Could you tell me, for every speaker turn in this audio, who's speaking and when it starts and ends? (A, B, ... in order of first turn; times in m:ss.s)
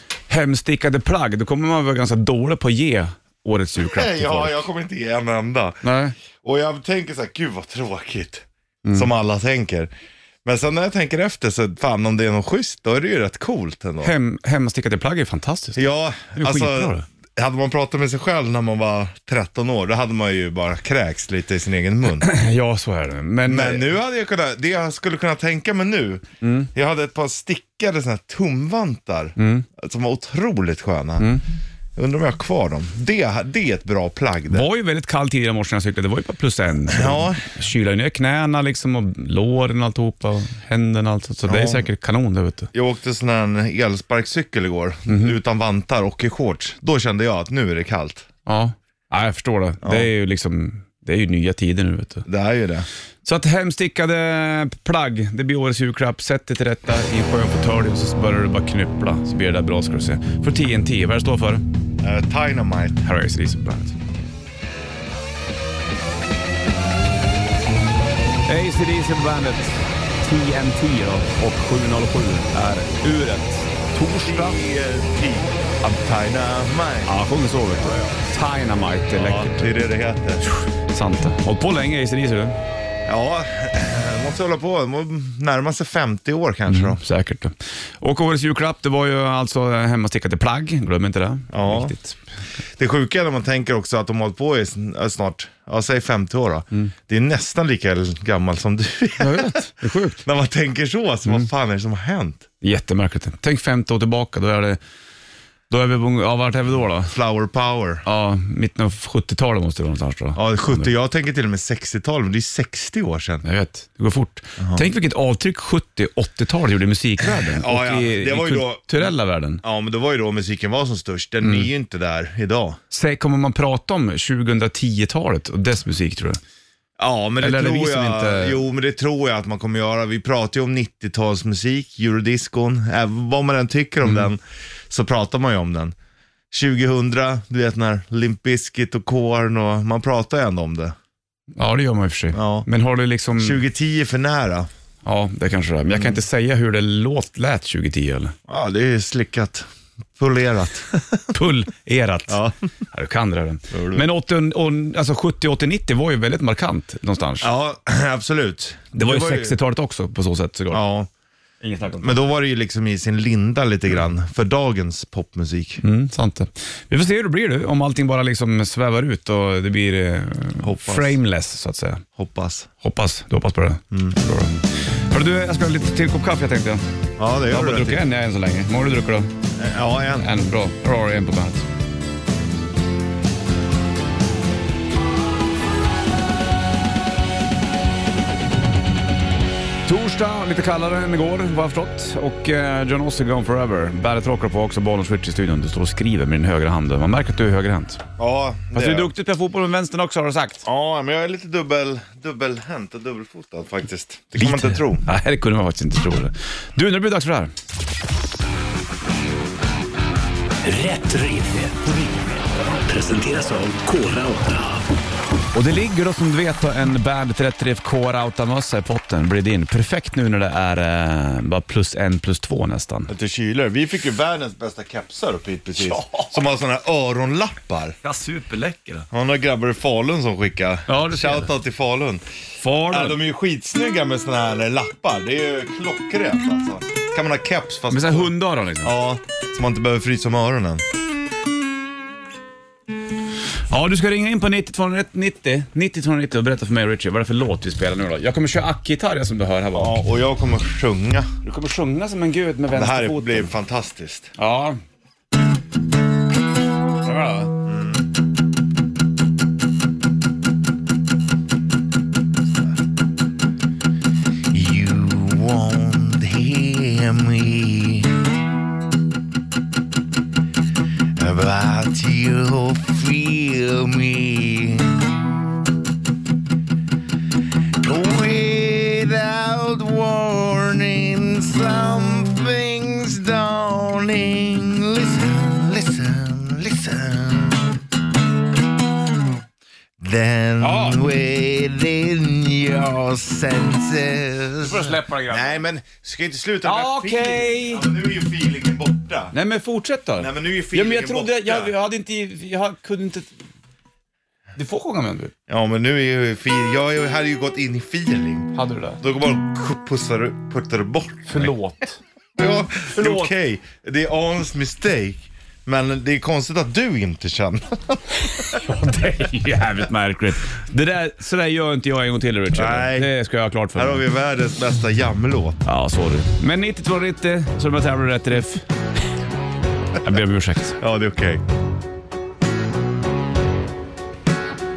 0:00.3-0:04.6 A
0:03.9-0:09.9 B
0:05.8-0:06.2 A
0:10.4-0:14.1 B
0:14.0-0:15.8 A
0:15.8-0:22.3 B
0:16.4-0:17.0 A
0:22.2-0:23.9 A
0:23.5-0:31.3 B
0:26.4-0:26.7 A
0:29.4-0:29.7 A
0:31.2-0:31.4 A
0:32.0-0:34.7 B
0:34.5-0:42.7 A
0:36.9-0:37.6 B
0:41.5-0:41.9 B
0:42.7-0:48.3 B
0:45.1-0:45.4 A
0:48.5-0:52.3 A
0:49.8-0:50.1 B
0:52.3-0:52.9 B
0:53.2-1:01.6 A
1:02.0-1:03.0 B
1:03.0-1:04.0 A
1:08.5-1:14.6 A
1:14.2-1:17.1 B
1:17.1-1:19.8 A
1:17.7-1:18.2 B
1:19.1-1:20.4 B
1:20.4-1:22.6 A
1:23.1-1:27.0 B
1:26.7-1:32.2 A
1:31.5-1:32.0 B
1:32.8-1:39.6 B
1:39.2-1:40.2 A
1:40.2-1:42.5 B
1:42.6-1:44.8 A
1:45.7-1:47.1 A
1:47.1-1:48.0 B
1:48.0-1:50.9 A
1:50.4-1:53.4 B
1:53.4-1:59.6 A
1:54.6-1:54.8 B
1:57.2-1:59.1 B
1:59.6-2:02.8 B
2:01.4-2:01.7 A
2:02.9-2:06.4 A
2:07.0-2:16.0 B
2:07.4-2:08.6 A
2:16.5-2:21.0 B
2:21.6-2:23.6 A
2:22.3-2:22.7 B
2:23.4-2:24.7 B
2:25.0-2:28.4 A
2:28.5-2:29.7 B
2:30.2-2:31.3 B
2:31.3-2:37.5 A
2:32.3-2:32.6 B
2:33.7-2:34.0 B
2:37.4-2:39.6 B
2:39.0-2:40.8 A
2:40.7-2:41.1 B
2:41.6-2:42.2 A
2:42.0-2:45.8 B
2:45.8-2:52.0 A
2:50.6-2:51.2 B
2:52.2-2:52.7 B
2:52.8-2:56.8 A
2:53.9-2:54.2 B
2:57.2-2:58.0 B
2:57.5-2:59.3 A
2:59.6-3:00.3 B
3:00.2-3:01.7 A
3:09.9-3:18.0 A
3:18.2-3:19.1 B
3:18.7-3:20.6 A
3:20.6-3:25.0 B
3:24.4-3:27.5 A
3:30.6-3:34.8 C
3:35.5-3:43.1 A
3:43.1-3:48.0 B
3:45.8-3:46.4 A
3:48.0-3:49.1 A
3:49.1-3:52.2 B
3:50.9-3:51.5 A
3:52.6-3:53.2 A
3:52.9-4:00.8 B
3:57.9-3:59.0 A
4:03.7-4:10.0 A
4:09.7-4:11.3 B
4:11.4-4:13.5 A
4:12.7-4:14.3 B
4:14.4-4:14.8 A
4:17.0-4:17.5 A
4:17.6-4:18.0 B
4:24.5-4:28.1 B
4:31.2-4:35.1 B
4:37.8-4:47.8 B
4:50.0-4:59.3 B
4:50.6-4:51.0 A
4:54.6-4:55.5 A
4:56.6-4:57.9 A
4:59.3-5:03.3 A
5:00.2-5:01.7 B
5:04.6-5:05.3 A
5:05.5-5:11.5 B
5:08.6-5:09.0 A
5:11.3-5:12.0 A
5:12.4-5:18.6 B
5:12.9-5:13.3 A
5:18.2-5:24.0 A
5:22.5-5:23.1 B
5:23.8-5:25.6 B
5:25.6-5:28.7 A
5:30.0-5:30.8 A
5:30.8-5:31.4 B